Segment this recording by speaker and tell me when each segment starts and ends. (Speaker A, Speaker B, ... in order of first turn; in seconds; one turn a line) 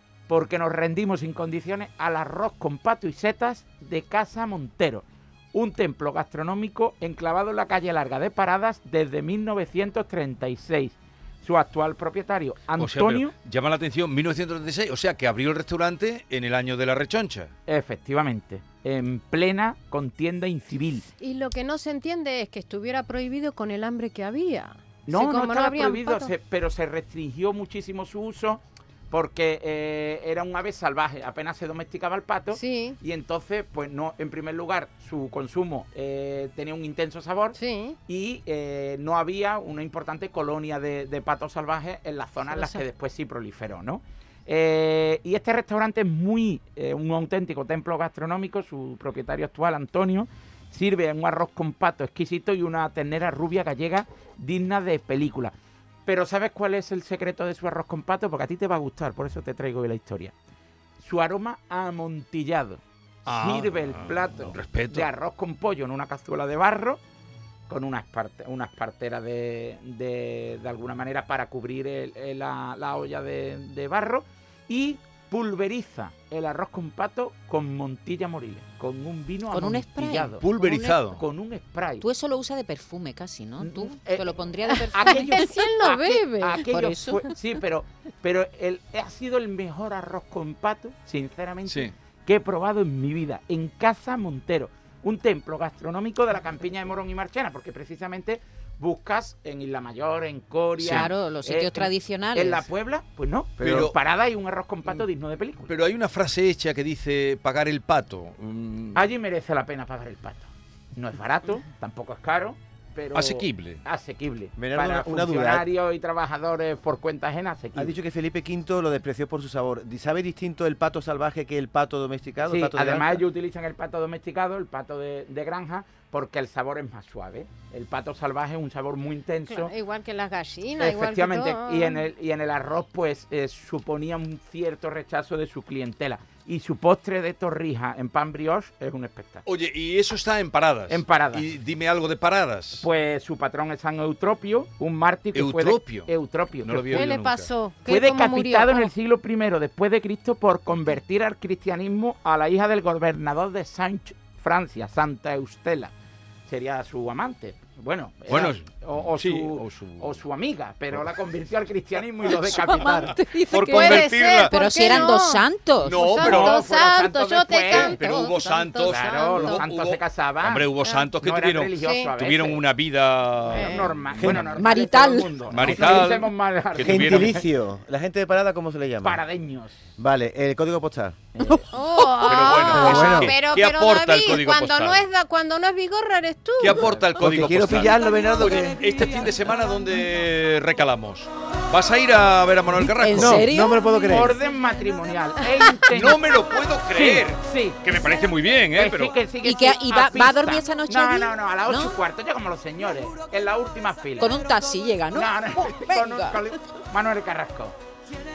Speaker A: 0.3-13.3
Speaker B: 12.8-17.5
Speaker A: 17.7-21.1
Speaker C: 21.2-26.3
Speaker A: 25.1-55.5
Speaker C: 32.5-33.0
Speaker C: 37.5-38.0
Speaker D: 42.5-42.8
Speaker A: 56.0-60.3
Speaker A: 61.0-67.0
Speaker B: 63.2-65.1
Speaker A: 67.7-82.0
Speaker D: 79.5-80.4
Speaker B: 80.4-81.2
Speaker D: 82.0-85.5
Speaker A: 83.6-105.7
Speaker C: 84.7-86.7
Speaker D: 86.6-87.3
Speaker B: 91.7-91.9
Speaker B: 100.8-101.1
Speaker D: 100.8-102.7
Speaker E: 103.6-103.9
Speaker B: 103.6-103.9
Speaker B: 105.7-109.0
Speaker A: 108.9-118.0
Speaker B: 113.1-113.8
Speaker E: 114.6-115.7
Speaker E: 117.8-123.2
Speaker A: 122.4-129.7
Speaker C: 129.5-132.1
Speaker A: 130.8-139.4
Speaker B: 139.4-142.8
Speaker A: 140.9-141.4
Speaker A: 142.8-147.1
Speaker B: 145.3-146.1
Speaker B: 146.6-147.5
Speaker C: 146.9-148.9
Speaker A: 147.8-155.9
Speaker A: 156.5-163.1
Speaker B: 158.3-160.2
Speaker B: 160.9-161.2
Speaker B: 162.3-165.2
Speaker D: 162.3-166.1
Speaker C: 163.6-169.6
Speaker B: 165.8-166.6
Speaker A: 166.1-168.2
Speaker B: 167.6-174.6
Speaker A: 168.8-172.7
Speaker C: 170.8-171.2
Speaker C: 171.8-172.1
Speaker C: 173.5-173.9
Speaker A: 173.5-177.5
Speaker E: 174.2-174.5
Speaker D: 174.3-175.3
Speaker B: 175.5-177.4
Speaker E: 175.7-176.1
Speaker E: 176.8-179.2
Speaker A: 179.0-179.8
Speaker E: 180.0-181.2
Speaker A: 181.3-181.7
Speaker C: 181.7-186.9
Speaker B: 182.2-185.0
Speaker E: 182.5-183.3
Speaker B: 186.6-193.5
Speaker E: 187.2-188.8
Speaker D: 192.9-193.8
Speaker E: 193.1-194.3
Speaker A: 194.1-196.2
Speaker B: 195.9-199.2
Speaker E: 197.0-197.2
Speaker A: 197.4-197.8
Speaker A: 198.7-204.4
Speaker D: 199.4-201.9
Speaker D: 204.2-206.4
Speaker A: 205.1-207.7